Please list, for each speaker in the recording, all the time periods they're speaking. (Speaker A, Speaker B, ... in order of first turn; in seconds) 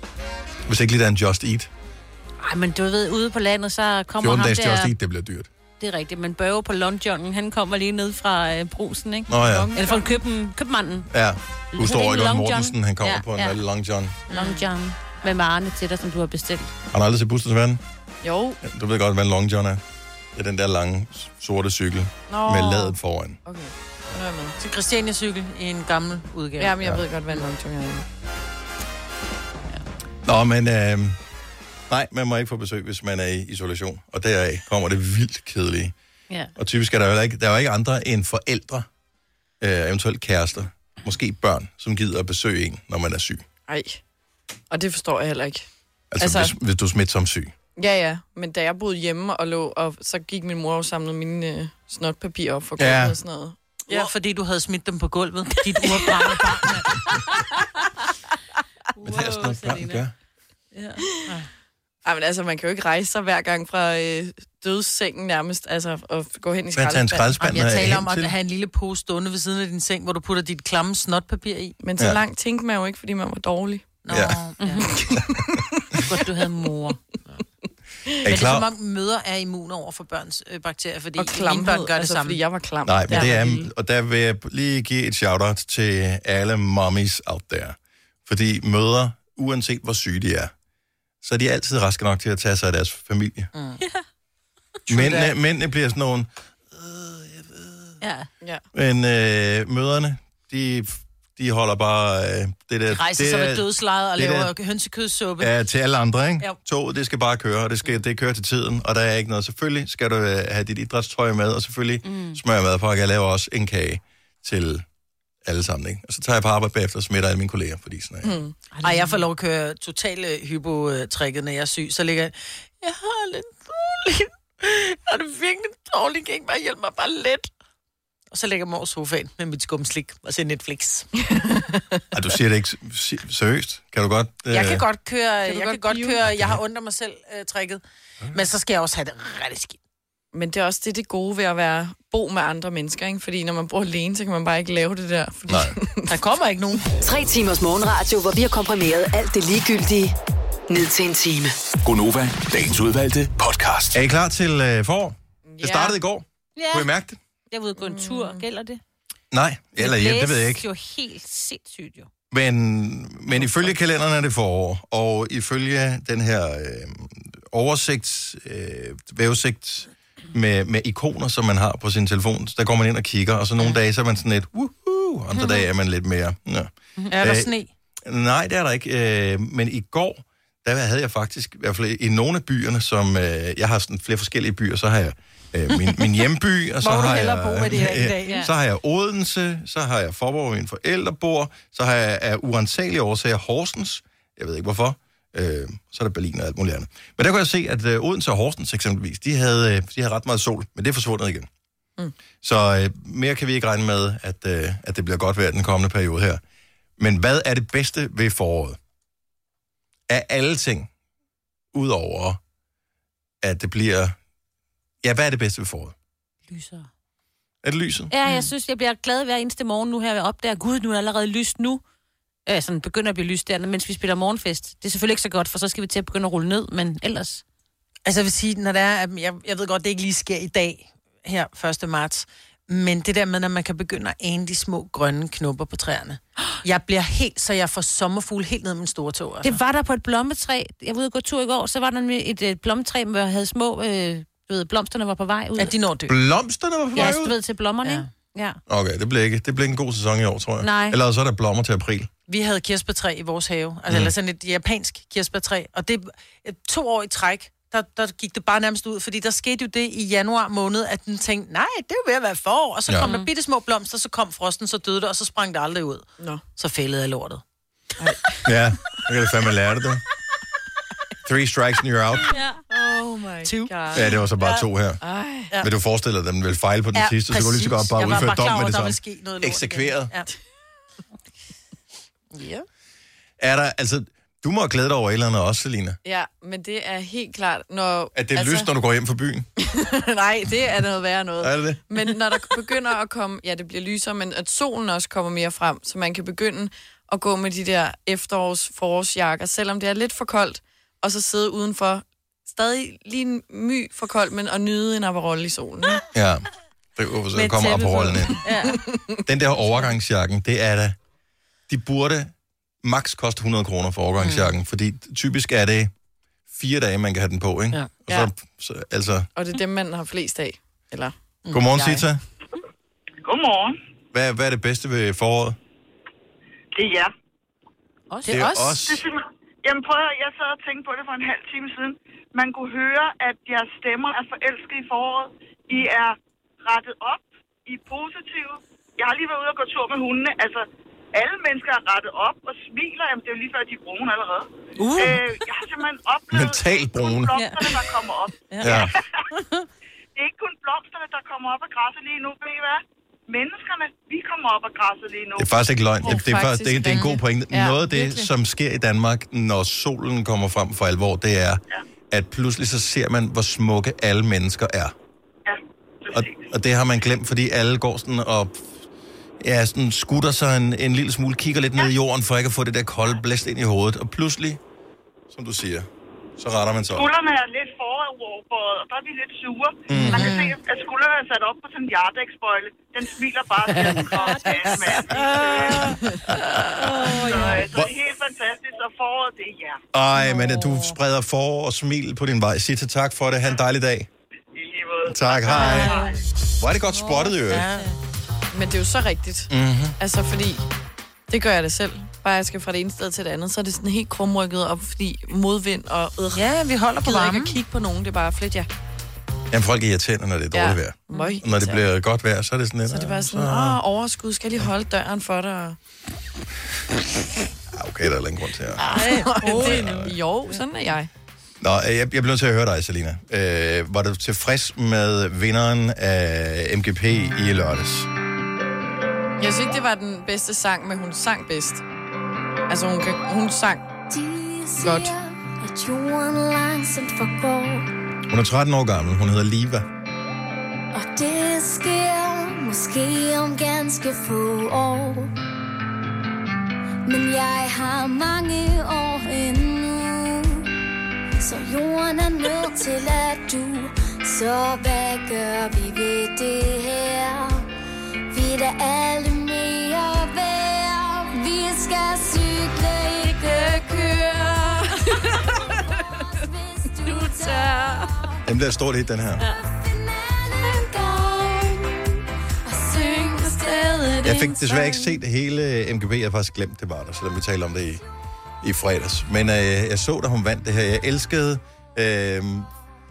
Speaker A: 0.7-1.7, 4.2-5.5, 9.3-9.7, 11.1-14.2, 16.9-17.8, 18.6-19.8, 20.3-23.4, 30.2-31.2, 31.9-35.9, 36.6-38.9, 39.6-43.4, 46.1-47.5, 52.8-53.2, 59.0-60.1, 66.8-68.3, 74.1-74.4, 75.2-75.6, 78.2-78.7, 82.9-90.5, 91.2-93.5, 94.9-97.9, 98.7-104.5, 105.4-114.8, 115.5-118.4, 132.1-134.8, 136.3-136.6, 145.5-145.8, 153.9-157.2, 159.3-160.7, 162.3-177.5, 178.1-201.5, 202.4-206.4, 207.0-208.8, 210.1-210.9, 211.7-212.4, 213.4-214.2, 215.0-215.9, 217.6-218.1, 246.1-247.4, 248.7-252.1, 253.9-254.1, 268.4-270.0, 271.2-272.3, 273.9-275.0, 275.6-280.1, 283.4-286.0, 288.1-289.5, 291.4-291.8, 306.1-308.4, 309.3-311.0, 311.7-315.9, 316.5-319.3, 321.5-322.2, 324.1-325.6, 328.3-329.0, 346.3-347.4, 348.6-348.9, 355.4-364.9, 366.1-368.7, 369.4-374.6, 375.3-377.1, 379.9-380.4, 386.3-386.6, 387.6-387.9, 389.9-394.1, 395.1-396.0, 396.6-397.7, 399.5-400.0, 409.5-413.8, 417.7-418.8, 419.6-420.2, 421.6-428.1, 438.3-439.9, 468.4-469.4, 474.2-478.0, 478.6-482.7
Speaker B: 2.4-4.9, 5.8-11.1, 11.7-13.6, 14.3-16.7, 56.0-56.4, 59.0-60.0, 60.7-61.2, 74.6-75.0, 76.1-77.0, 98.0-98.3, 112.0-112.4, 118.7-119.2, 156.6-156.9, 157.5-158.8, 159.8-162.1, 188.3-188.5, 216.5-216.9, 218.1-221.8, 222.5-227.4, 239.4-245.7, 247.0-248.6, 250.6-251.0, 263.0-263.3, 272.3-272.6, 308.4-308.8, 328.2-328.6, 344.8-345.2, 347.3-347.9, 348.5-349.6, 383.9-386.0, 386.8-387.6, 390.3-390.8, 395.6-396.1, 396.9-397.9, 411.1-411.4, 419.2-419.8
Speaker C: 9.4-10.1, 18.2-18.6, 22.3-24.6, 26.6-28.1, 43.7-44.0, 44.7-45.7, 46.2-46.5, 47.8-54.1, 62.0-67.3, 71.8-73.9, 75.0-75.7, 81.2-83.6, 118.2-118.5, 131.3-132.0, 135.5-136.2, 140.3-146.1, 155.5-156.0, 157.8-158.4, 268.0-269.0, 272.7-274.1, 275.0-275.5, 286.1-288.7, 289.6-306.0, 308.7-309.2, 319.4-321.1, 356.0-358.2, 398.5-400.6, 401.3-406.4, 407.0-408.7, 410.5-411.8, 412.9-415.8, 418.9-421.1, 429.4-431.8, 432.7-433.9, 434.8-435.1, 464.8-465.6, 467.0-468.2, 472.9-475.1
Speaker D: 14.3-14.7, 24.6-26.8, 53.9-57.0, 67.4-71.8, 74.0-74.8, 78.2-82.4, 93.5-93.8, 94.9-95.3, 102.9-105.5, 118.8-127.5, 128.3-131.1, 134.5-137.8, 138.3-139.8, 146.1-146.9, 177.1-177.7, 185.8-186.1, 186.8-188.5, 228.1-239.6, 245.6-246.2, 252.3-267.4, 273.4-273.7, 274.4-274.6, 276.9-280.3, 282.3-282.6, 307.4-308.5, 314.2-314.5, 321.4-322.0, 328.2-328.5, 356.9-357.2, 379.9-380.6, 383.8-385.9, 397.5-397.9, 406.4-407.6, 418.9-419.8
Speaker E: 147.0-150.2, 150.7-151.6
Speaker F: 151.8-154.0
Speaker G: 323.2-323.8, 326.8-327.1, 328.9-348.8, 350.2-355.6, 365.5-366.4, 376.9-386.0, 387.2-389.8, 394.5-396.1
Speaker H: 434.1-437.9, 440.9-445.3, 447.1-450.7, 451.4-457.7, 458.3-468.4, 469.4-472.0, 472.6-474.6